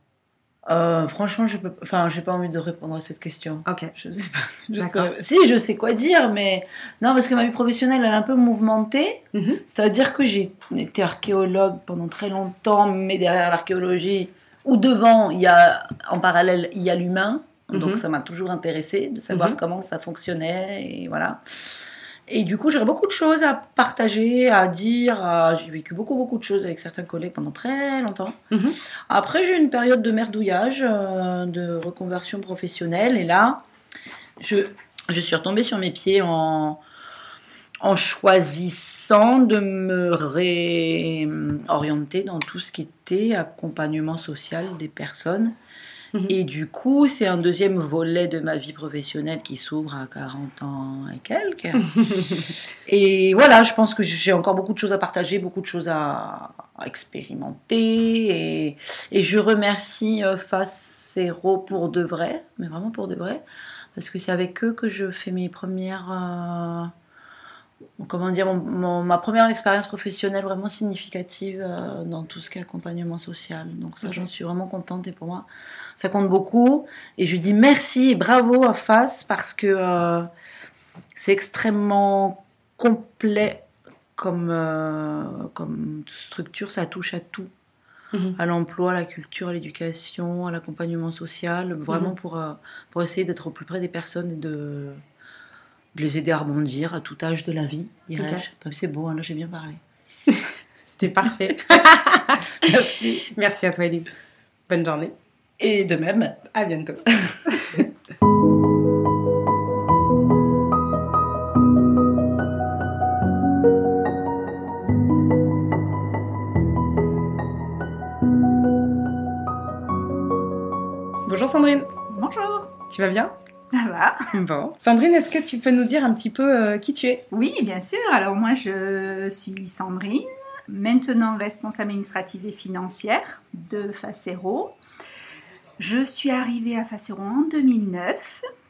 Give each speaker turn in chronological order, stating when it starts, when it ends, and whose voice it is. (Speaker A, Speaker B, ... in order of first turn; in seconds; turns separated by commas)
Speaker A: 0.7-21.4, Speaker B: 3.6-3.9, Speaker B: 4.8-5.1, Speaker B: 9.3-9.6, Speaker B: 17.7-18.0, Speaker B: 19.3-19.6, Speaker A: 22.3-28.4, Speaker B: 28.5-28.8, Speaker A: 29.1-33.6, Speaker A: 34.4-36.8, Speaker A: 37.8-45.5, Speaker A: 46.3-63.4, Speaker A: 63.9-66.9, Speaker A: 68.0-80.3, Speaker A: 81.1-87.5, Speaker A: 88.3-95.0, Speaker A: 95.9-99.8, Speaker B: 98.2-98.4, Speaker B: 100.3-102.6, Speaker A: 101.5-101.8, Speaker A: 102.6-103.3, Speaker B: 103.3-104.1, Speaker B: 104.7-105.1, Speaker A: 105.6-106.4, Speaker B: 106.5-107.9, Speaker B: 121.2-121.9, Speaker C: 122.1-122.7, Speaker B: 122.9-123.3, Speaker C: 123.7-124.3, Speaker B: 124.3-127.2, Speaker C: 127.3-134.7, Speaker C: 135.8-138.4